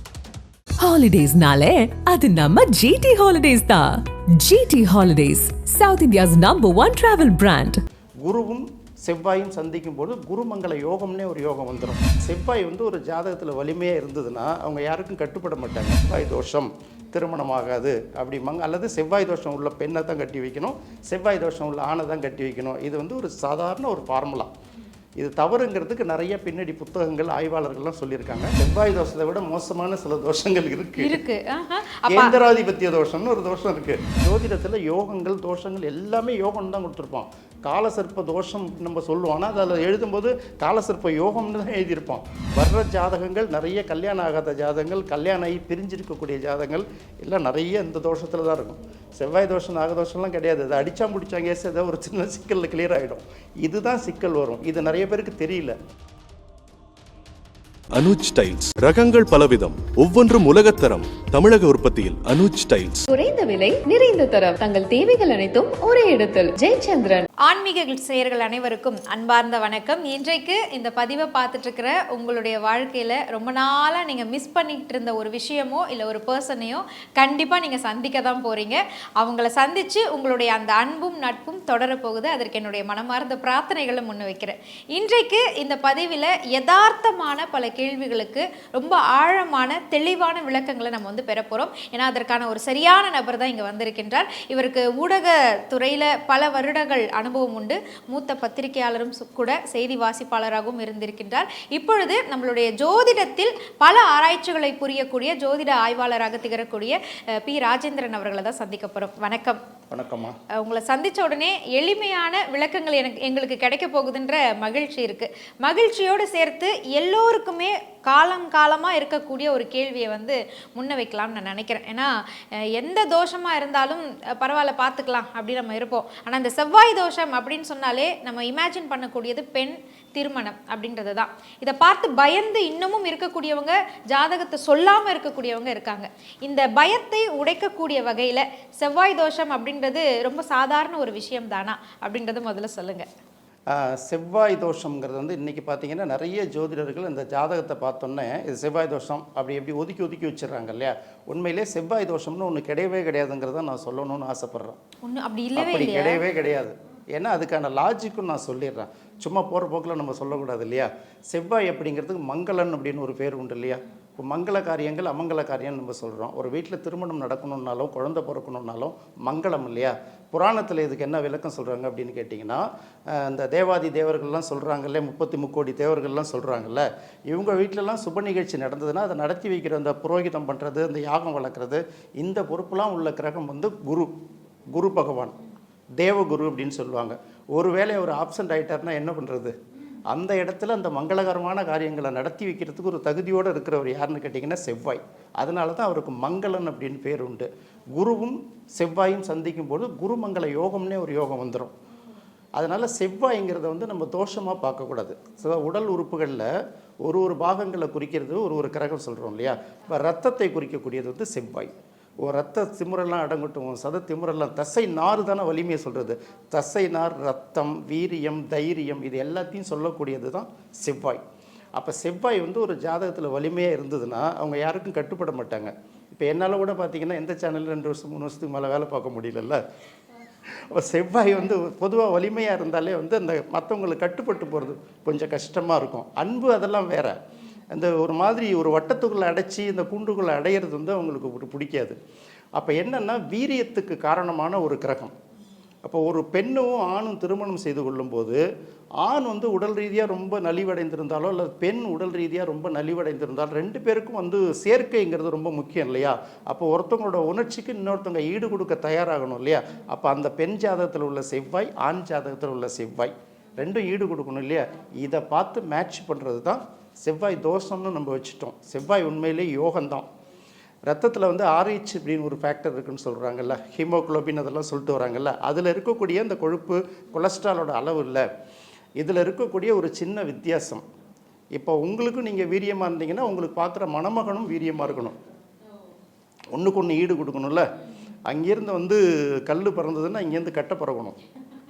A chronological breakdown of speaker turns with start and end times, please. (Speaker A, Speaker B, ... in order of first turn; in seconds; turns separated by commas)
Speaker A: 0.8-7.8, Speaker B: 8.2-24.5, Speaker B: 25.2-31.2, Speaker C: 31.0-32.4, Speaker B: 32.1-55.8, Speaker D: 57.9-63.1, Speaker E: 63.1-67.3, Speaker C: 67.4-109.6, Speaker B: 109.9-110.3, Speaker C: 110.6-143.1, Speaker B: 143.7-154.8, Speaker C: 155.0-156.2, Speaker B: 155.6-184.1, Speaker B: 184.7-185.3, Speaker B: 186.0-189.5, Speaker B: 190.1-201.7, Speaker B: 202.6-206.5, Speaker B: 207.0-221.2, Speaker B: 221.7-229.6, Speaker B: 230.5-237.2, Speaker B: 237.7-241.9, Speaker B: 242.6-245.1, Speaker B: 245.8-248.4, Speaker B: 249.0-270.1, Speaker B: 270.9-278.2, Speaker B: 279.0-280.8, Speaker B: 281.6-285.2, Speaker B: 286.5-287.6, Speaker B: 288.3-291.1